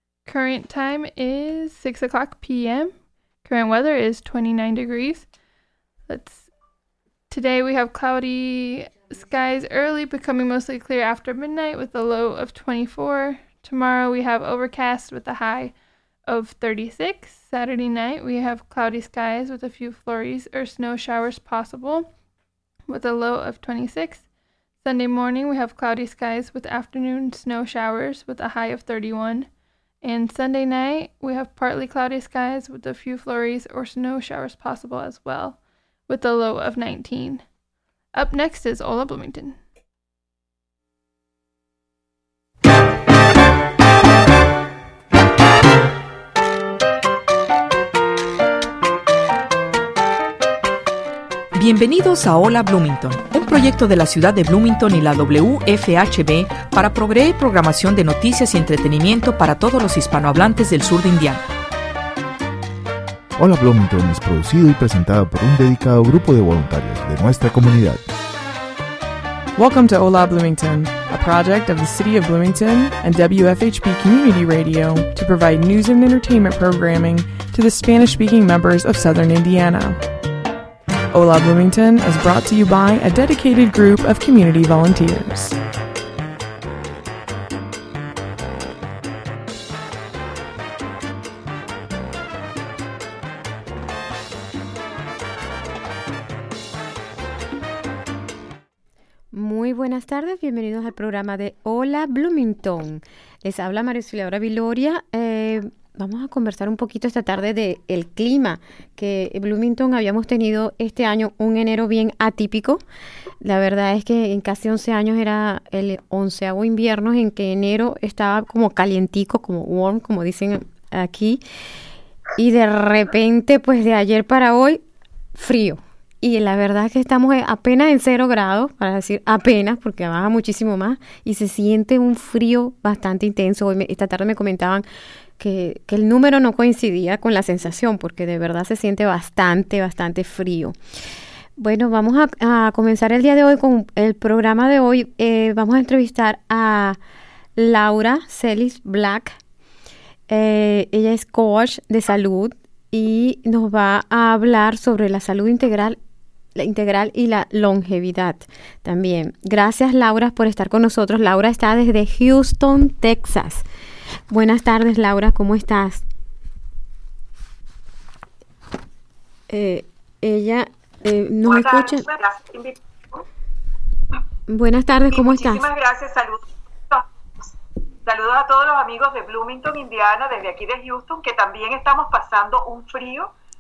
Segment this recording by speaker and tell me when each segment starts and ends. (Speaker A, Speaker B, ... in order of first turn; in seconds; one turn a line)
Speaker A: 0.2-5.3
Speaker A: 6.1-6.5
Speaker A: 7.3-22.1
Speaker A: 22.9-37.5
Speaker A: 38.1-39.6
Speaker B: 51.5-61.4
Speaker C: 63.4-68.0
Speaker D: 69.5-80.0
Speaker D: 81.1-85.5
Speaker E: 99.3-112.8
Speaker E: 113.4-121.4
Speaker E: 122.3-124.8
Speaker E: 125.3-134.8
Speaker E: 135.4-140.8
Speaker E: 141.6-147.0
Speaker E: 147.6-149.4
Speaker E: 150.3-156.0
Speaker E: 156.5-163.7
Speaker E: 164.3-166.0
Speaker E: 169.5-172.1
Speaker F: 171.4-173.2
Speaker E: 174.5-175.7
Speaker F: 175.1-177.5
Speaker F: 178.0-183.3